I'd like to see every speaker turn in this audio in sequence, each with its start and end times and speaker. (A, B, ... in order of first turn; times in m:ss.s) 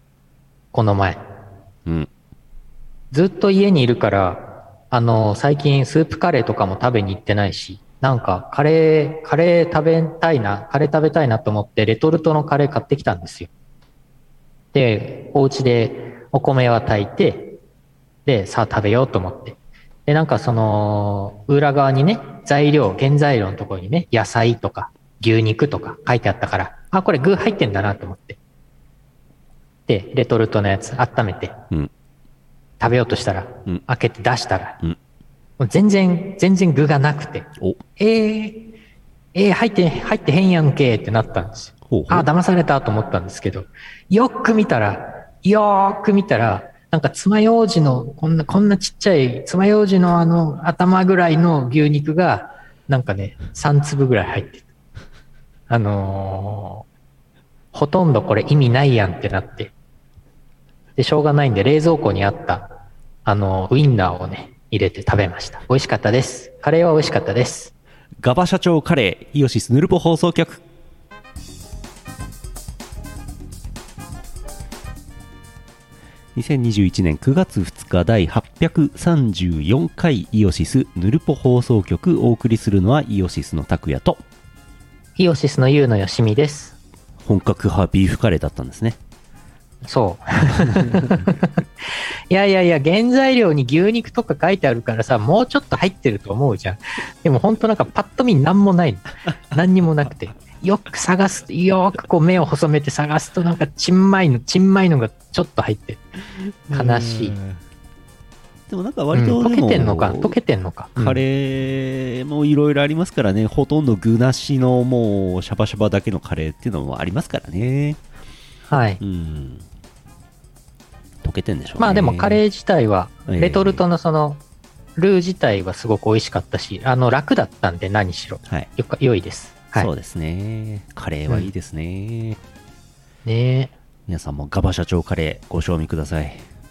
0:00.7-0:01.2 A
0:03.1-0:13.5 A
0:14.7-0:17.6 A
0:18.2-0:28.4 A
0:29.9-0:31.6 A
0:32.8-0:34.8 A
0:35.6-0:38.7 A
0:39.3-0:54.6 A
0:41.9-0:42.3 B
0:55.7-0:56.8 A
0:57.7-0:59.7 A
1:01.0-1:02.6 A
1:03.2-1:07.7 A
1:08.2-1:10.6 B
1:16.3-1:24.2 B
1:25.2-1:26.7 A
1:27.2-1:29.0 B
1:29.8-1:46.0 A
1:30.7-1:31.3 B
1:46.7-1:47.6 B
1:46.7-1:47.4 A
1:48.7-1:50.4 B
1:49.1-1:51.2 A
1:51.0-1:58.0 B
1:58.7-1:59.0 A
1:59.0-1:59.6 B
2:01.2-2:02.4 B
2:01.8-2:04.4 A
2:03.3-2:03.8 B
2:05.0-2:09.9 A
2:09.8-2:12.4 B
2:13.2-2:13.7 A
2:14.1-2:16.4 B